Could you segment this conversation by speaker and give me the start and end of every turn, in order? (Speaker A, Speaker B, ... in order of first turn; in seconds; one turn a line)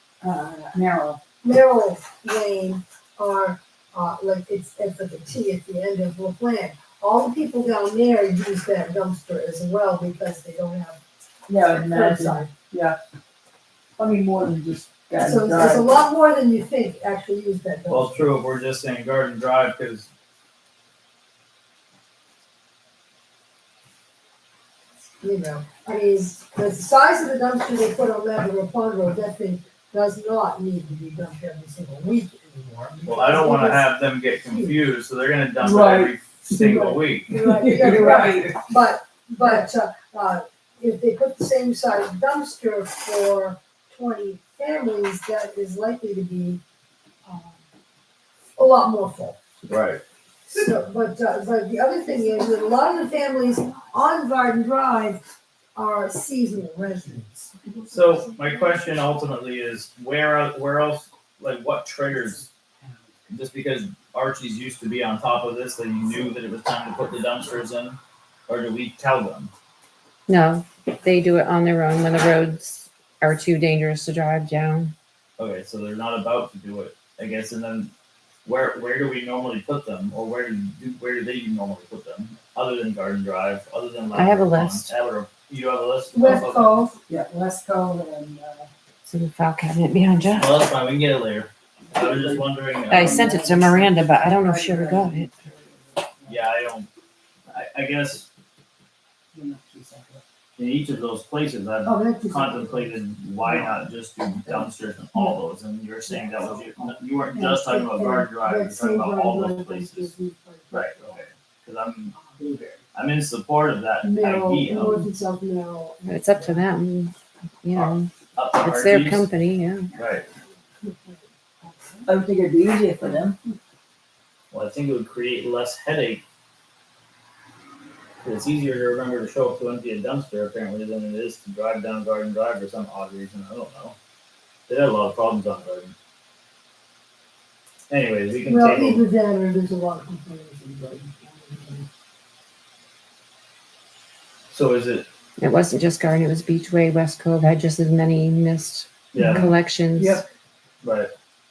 Speaker A: 0.2-1.2
Speaker B: 1.4-11.0
Speaker A: 11.5-13.0
Speaker B: 11.8-12.5
Speaker A: 14.0-15.9
Speaker B: 15.2-18.3
Speaker C: 17.9-20.1
Speaker B: 25.2-34.7
Speaker C: 33.1-37.3
Speaker A: 35.6-36.7
Speaker B: 36.6-46.6
Speaker A: 37.3-38.6
Speaker B: 47.2-47.6
Speaker B: 48.6-49.4
Speaker C: 49.7-50.0
Speaker B: 50.5-55.2
Speaker B: 55.8-57.6
Speaker C: 57.9-62.5
Speaker C: 63.3-69.5
Speaker D: 70.3-74.9
Speaker C: 75.4-77.9
Speaker C: 78.5-86.8
Speaker D: 84.1-84.9
Speaker B: 86.1-87.0
Speaker A: 87.1-88.7
Speaker D: 89.1-90.6
Speaker C: 90.4-93.5
Speaker A: 91.9-96.4
Speaker D: 92.9-95.3
Speaker C: 96.3-96.9
Speaker C: 97.5-98.3
Speaker A: 99.3-100.2
Speaker C: 100.6-110.1
Speaker B: 101.8-102.9
Speaker A: 106.4-106.9
Speaker B: 107.3-111.1
Speaker C: 110.7-112.2
Speaker A: 112.4-112.8
Speaker C: 112.9-115.0
Speaker B: 114.0-116.7
Speaker D: 116.1-119.9
Speaker C: 117.8-119.3
Speaker C: 120.0-120.3
Speaker B: 120.8-122.1
Speaker A: 122.0-123.4
Speaker C: 124.5-126.2
Speaker C: 128.2-134.0
Speaker C: 134.7-135.9
Speaker C: 137.9-139.1
Speaker B: 138.5-141.9
Speaker C: 144.5-145.1
Speaker D: 145.4-150.2
Speaker C: 149.1-149.5
Speaker A: 149.2-149.4
Speaker A: 150.0-150.2
Speaker C: 150.8-151.1